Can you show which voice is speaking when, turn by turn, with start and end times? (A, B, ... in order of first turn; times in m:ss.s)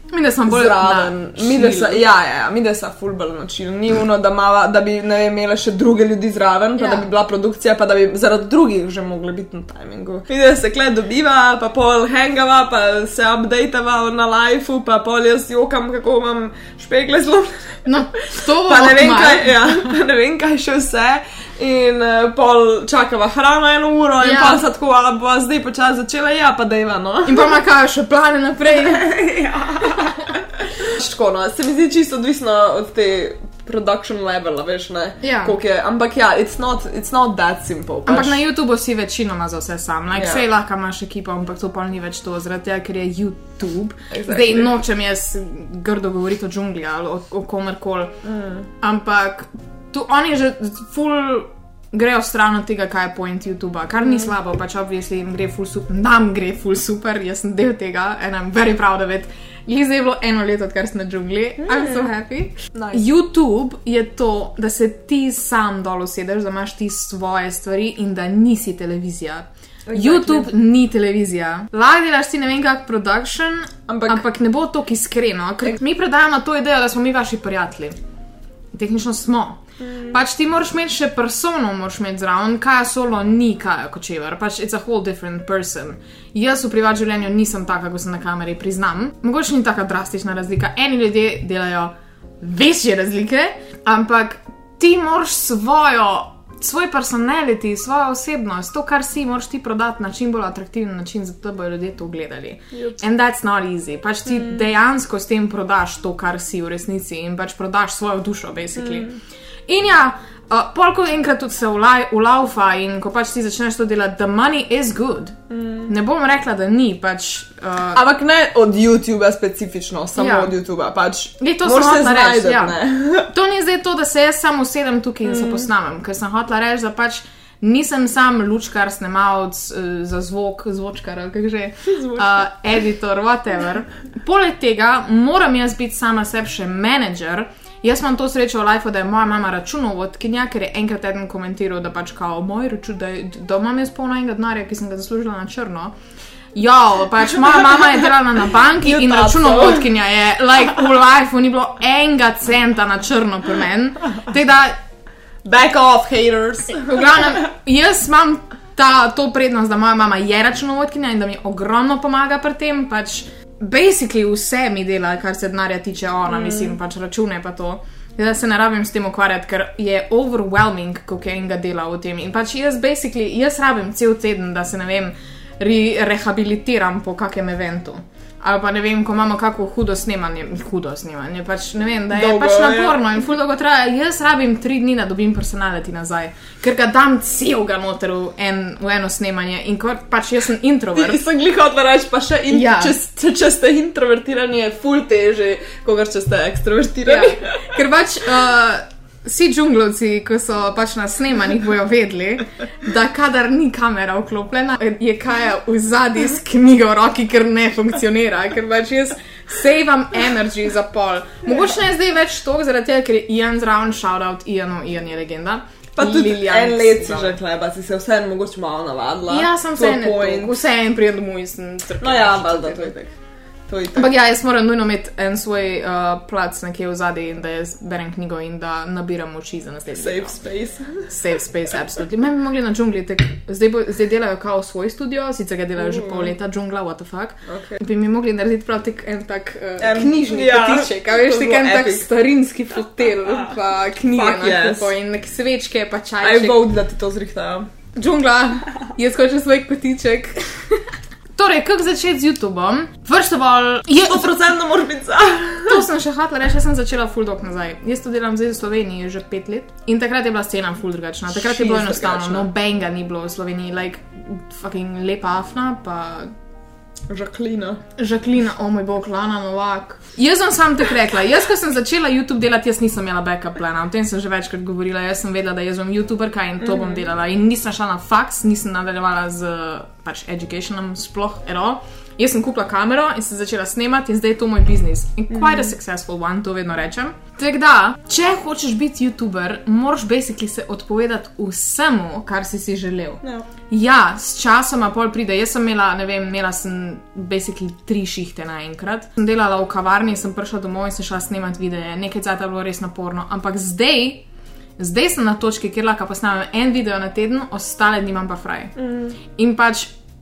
0:00.1-0:02.1 A
0:00.5-0:27.6 B
0:06.8-0:07.1 A
0:17.9-0:19.9 A
0:24.2-0:24.6 A
0:27.3-0:29.0 A
0:28.7-0:38.4 B
0:35.2-0:35.6 A
0:38.1-0:48.1 A
0:40.2-0:40.4 B
0:44.1-0:44.7 B
0:48.2-0:48.7 B
0:48.8-1:18.0 A
1:01.6-1:02.1 B
1:02.7-1:03.1 B
1:09.9-1:10.5 B
1:13.9-1:14.2 B
1:18.7-1:49.1 A
1:19.8-1:20.2 B
1:42.7-1:43.0 B
1:44.3-1:44.7 B
1:48.8-1:49.2 B
1:49.7-1:55.4 A
1:55.5-1:55.9 B
1:55.9-1:58.0 A
1:57.9-2:03.3 B
2:00.2-2:00.5 A
2:01.4-2:25.9 A
2:05.3-2:05.7 B
2:11.9-2:12.5 B
2:26.5-2:34.8 A
2:28.8-2:29.9 B
2:35.4-2:37.4 B
2:36.7-3:11.2 A
2:46.3-2:46.8 B
3:02.1-3:03.1 B
3:11.0-3:17.8 B
3:12.5-3:13.0 A
3:17.0-3:37.4 A
3:36.0-3:40.6 B
3:39.3-3:42.9 A
3:42.0-3:43.1 B
3:43.7-3:44.1 B
3:44.0-3:50.4 A
3:50.0-3:51.1 B
3:51.1-4:06.6 A
3:55.8-3:56.3 B
3:57.5-3:57.8 B
3:59.8-4:02.1 B
4:03.2-4:03.6 B
4:04.1-4:04.9 B
4:06.2-4:07.7 B
4:08.0-4:14.3 A
4:14.0-4:15.8 B
4:15.7-4:26.3 A
4:21.3-4:22.5 B
4:27.1-4:27.8 B
4:28.0-5:04.2 A
4:36.6-4:37.1 B
4:45.3-4:45.7 B
4:53.2-4:53.5 B
5:04.8-5:08.7 A
5:08.8-5:09.2 B
5:09.3-5:10.0 A